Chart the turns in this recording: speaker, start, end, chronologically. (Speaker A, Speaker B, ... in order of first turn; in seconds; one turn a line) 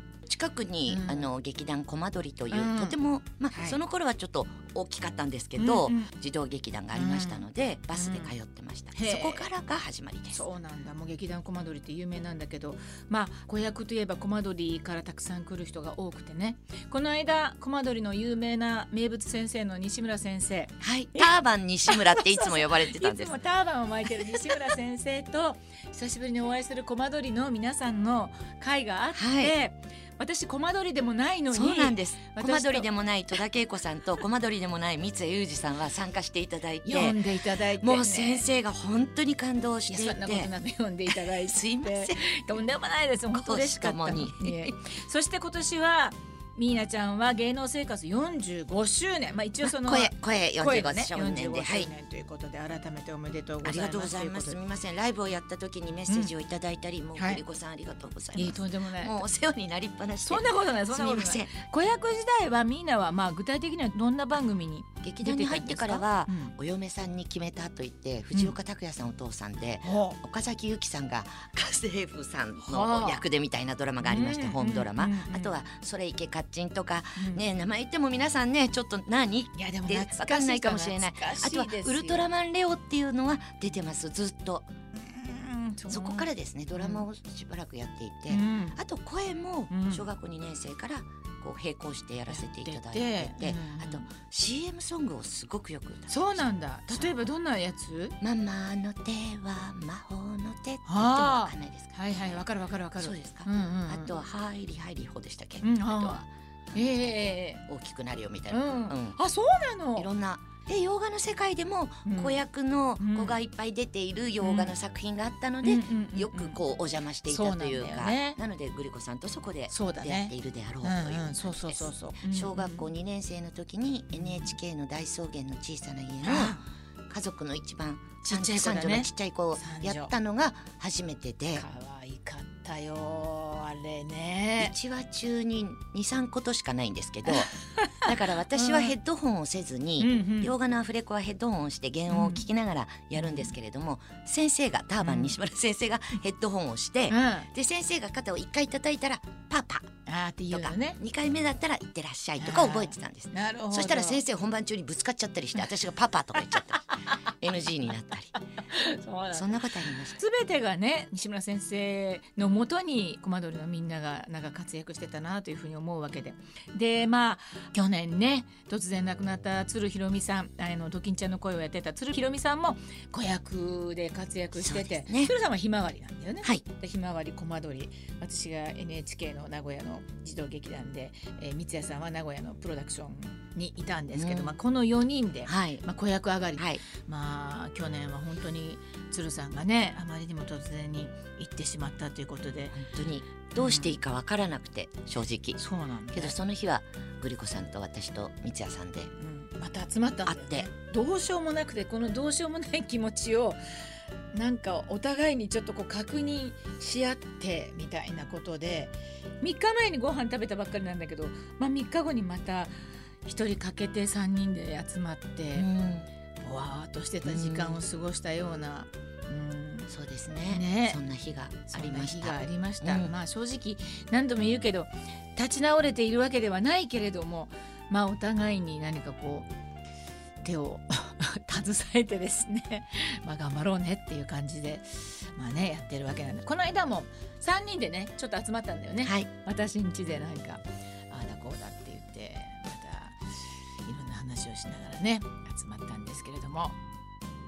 Speaker A: 0.2-10.4
Speaker B: 0.9-1.3
Speaker B: 2.5-3.0
Speaker B: 3.5-3.8
Speaker B: 5.6-6.1
Speaker B: 6.9-8.3
Speaker B: 8.9-9.5
Speaker B: 10.3-21.3
Speaker A: 20.8-23.4
Speaker B: 21.9-32.9
Speaker A: 29.1-29.5
Speaker A: 31.5-37.2
Speaker B: 36.8-38.5
Speaker A: 37.8-40.5
Speaker B: 39.9-54.6
Speaker A: 41.1-42.2
Speaker A: 43.3-44.7
Speaker A: 49.6-51.9
Speaker A: 53.6-61.5
Speaker B: 56.1-56.3
Speaker B: 57.2-57.4
Speaker B: 58.3-59.2
Speaker B: 60.2-66.5
Speaker A: 65.0-84.7
Speaker B: 68.3-68.6
Speaker B: 69.8-70.2
Speaker B: 72.6-73.2
Speaker B: 74.0-75.6
Speaker B: 77.2-77.4
Speaker B: 79.5-82.3
Speaker B: 84.9-87.1
Speaker A: 85.9-97.3
Speaker B: 88.3-88.8
Speaker B: 89.7-90.1
Speaker B: 92.3-94.1
Speaker B: 96.1-98.2
Speaker A: 98.2-102.4
Speaker B: 100.8-104.1
Speaker A: 103.0-109.2
Speaker B: 105.6-106.2
Speaker B: 106.8-107.6
Speaker B: 108.5-110.1
Speaker A: 110.0-126.6
Speaker B: 112.0-112.4
Speaker B: 113.0-113.4
Speaker B: 114.4-114.7
Speaker B: 115.6-116.6
Speaker B: 117.3-118.4
Speaker B: 119.7-122.9
Speaker B: 124.1-124.5
Speaker B: 126.2-126.6
Speaker A: 127.1-131.6
Speaker B: 128.2-130.1
Speaker B: 131.5-134.8
Speaker A: 134.6-149.9
Speaker B: 137.3-138.9
Speaker B: 140.0-140.5
Speaker B: 142.1-142.4
Speaker B: 143.2-143.5
Speaker B: 145.0-145.4
Speaker B: 147.1-147.5
Speaker B: 150.1-151.0
Speaker A: 150.5-158.3
Speaker B: 152.4-154.2
Speaker B: 156.5-157.1
Speaker B: 158.4-192.8
Speaker A: 159.3-160.2
Speaker A: 174.6-175.3
Speaker A: 184.1-184.6
Speaker A: 185.4-185.8
Speaker A: 186.6-186.8
Speaker A: 192.7-195.6
Speaker B: 193.6-194.0
Speaker B: 195.6-196.4
Speaker A: 196.1-199.1
Speaker B: 199.2-203.6
Speaker A: 200.2-200.7
Speaker B: 204.3-212.7
Speaker B: 213.2-215.7
Speaker A: 215.6-216.1
Speaker B: 216.4-219.9
Speaker A: 217.2-217.8
Speaker A: 219.9-223.1
Speaker B: 220.5-221.0
Speaker B: 221.7-229.5
Speaker B: 230.4-243.2
Speaker A: 239.0-239.3
Speaker B: 243.8-246.8